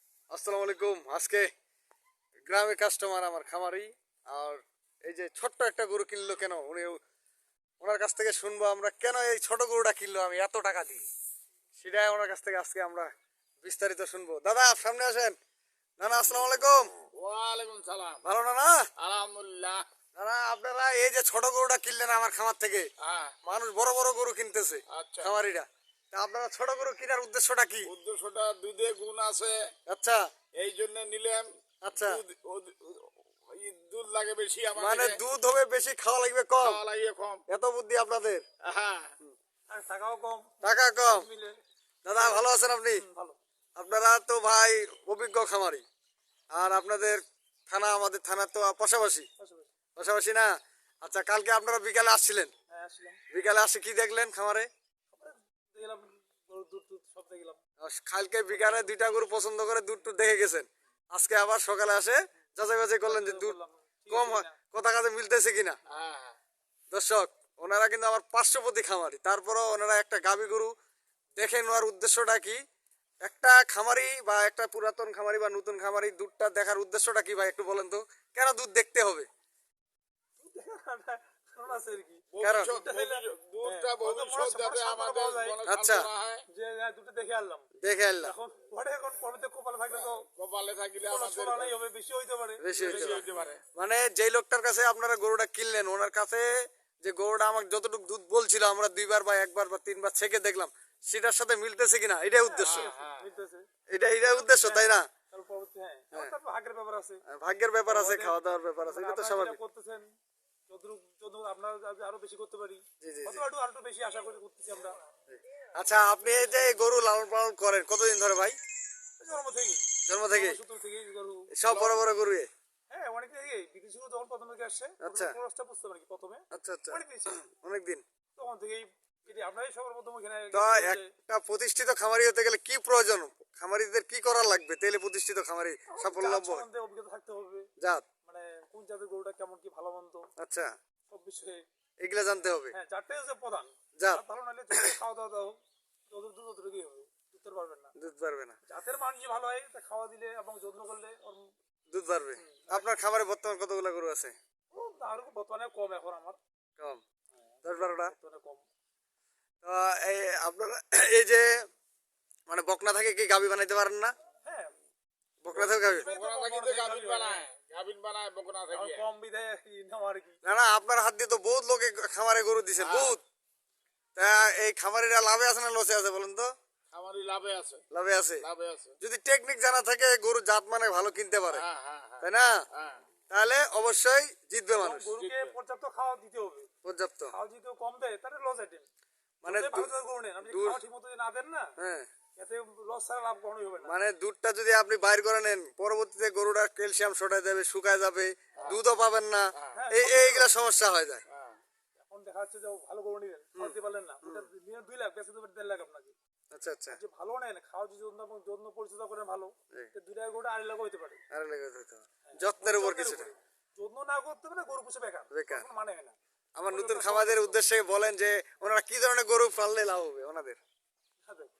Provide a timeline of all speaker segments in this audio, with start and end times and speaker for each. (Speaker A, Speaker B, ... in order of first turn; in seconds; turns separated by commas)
Speaker A: 0.3-1.5, Speaker A: 2.5-7.0, Speaker A: 7.8-11.0, Speaker A: 11.8-15.3, Speaker A: 16.0-16.9, Speaker B: 17.2-18.2, Speaker A: 18.2-18.8, Speaker B: 19.0-19.8, Speaker A: 20.1-22.9, Speaker B: 23.0-23.3, Speaker A: 23.4-27.9, Speaker B: 24.9-25.3, Speaker B: 27.9-29.6, Speaker A: 29.9-30.2, Speaker B: 30.6-35.2, Speaker A: 31.8-32.2, Speaker A: 34.8-36.8, Speaker B: 36.6-37.4, Speaker A: 37.5-38.4, Speaker B: 38.6-39.1, Speaker C: 39.7-41.6, Speaker A: 40.6-41.3, Speaker A: 42.0-43.0, Speaker C: 42.2-43.4, Speaker A: 43.8-45.8, Speaker A: 46.5-49.3, Speaker C: 49.4-49.7, Speaker A: 50.0-50.5, Speaker A: 51.0-52.5, Speaker C: 52.7-53.2, Speaker A: 53.3-54.7, Speaker C: 55.1-57.6, Speaker A: 57.8-63.5, Speaker C: 58.5-58.9, Speaker C: 63.0-64.6, Speaker A: 64.1-65.8, Speaker B: 65.9-66.3, Speaker A: 66.9-70.7, Speaker A: 71.4-72.6, Speaker A: 73.2-79.3, Speaker C: 80.4-85.6, Speaker B: 82.3-86.4, Speaker A: 82.4-82.8, Speaker A: 85.7-86.1, Speaker C: 86.5-90.2, Speaker A: 87.8-88.3, Speaker B: 90.0-91.8, Speaker C: 91.1-93.5, Speaker A: 92.6-93.2, Speaker B: 92.8-93.6, Speaker A: 93.8-96.5, Speaker A: 97.0-102.9, Speaker C: 102.4-103.7, Speaker B: 102.6-103.3, Speaker A: 103.9-105.0, Speaker C: 104.2-107.2, Speaker A: 107.3-109.6, Speaker C: 107.8-110.0, Speaker C: 110.7-115.0, Speaker A: 113.0-113.4, Speaker A: 115.3-118.5, Speaker C: 119.2-121.5, Speaker A: 120.1-120.6, Speaker A: 121.5-122.5, Speaker B: 121.7-122.0, Speaker C: 122.9-127.4, Speaker A: 125.0-125.4, Speaker A: 126.5-128.0, Speaker C: 128.4-131.1, Speaker A: 130.5-136.6, Speaker C: 135.9-137.7, Speaker A: 137.8-138.1, Speaker C: 138.2-140.2, Speaker A: 140.4-140.7, Speaker C: 141.1-141.6, Speaker A: 142.0-142.7, Speaker C: 142.7-145.6, Speaker A: 144.0-144.9, Speaker C: 146.1-147.9, Speaker A: 147.9-148.6, Speaker C: 148.7-151.5, Speaker A: 151.9-154.3, Speaker C: 152.4-152.9, Speaker C: 154.7-156.4, Speaker A: 157.6-158.1, Speaker C: 157.7-158.6, Speaker A: 159.6-161.7, Speaker A: 162.5-164.1, Speaker C: 164.4-164.7, Speaker A: 165.4-166.1, Speaker C: 165.5-167.4, Speaker B: 165.7-169.0, Speaker C: 168.7-170.4, Speaker A: 170.4-173.2, Speaker B: 172.8-173.2, Speaker A: 174.2-176.5, Speaker B: 176.9-177.8, Speaker A: 177.9-178.4, Speaker B: 178.4-178.9, Speaker A: 179.0-181.6, Speaker B: 181.5-183.0, Speaker A: 182.2-182.6, Speaker A: 183.3-185.1, Speaker C: 184.7-186.7, Speaker B: 185.2-185.5, Speaker A: 186.8-187.3, Speaker C: 187.3-188.9, Speaker A: 189.4-189.9, Speaker C: 189.4-191.7, Speaker A: 190.4-190.8, Speaker A: 191.8-192.1, Speaker C: 192.4-194.0, Speaker A: 193.8-201.2, Speaker B: 199.6-199.9, Speaker C: 199.7-200.5, Speaker B: 201.3-201.6, Speaker C: 202.0-206.1, Speaker A: 203.6-204.4, Speaker A: 206.5-207.0, Speaker C: 206.9-211.2, Speaker A: 211.3-213.3, Speaker C: 212.2-216.1, Speaker A: 215.3-215.7, Speaker A: 216.6-220.6, Speaker C: 216.7-217.5, Speaker C: 221.2-221.5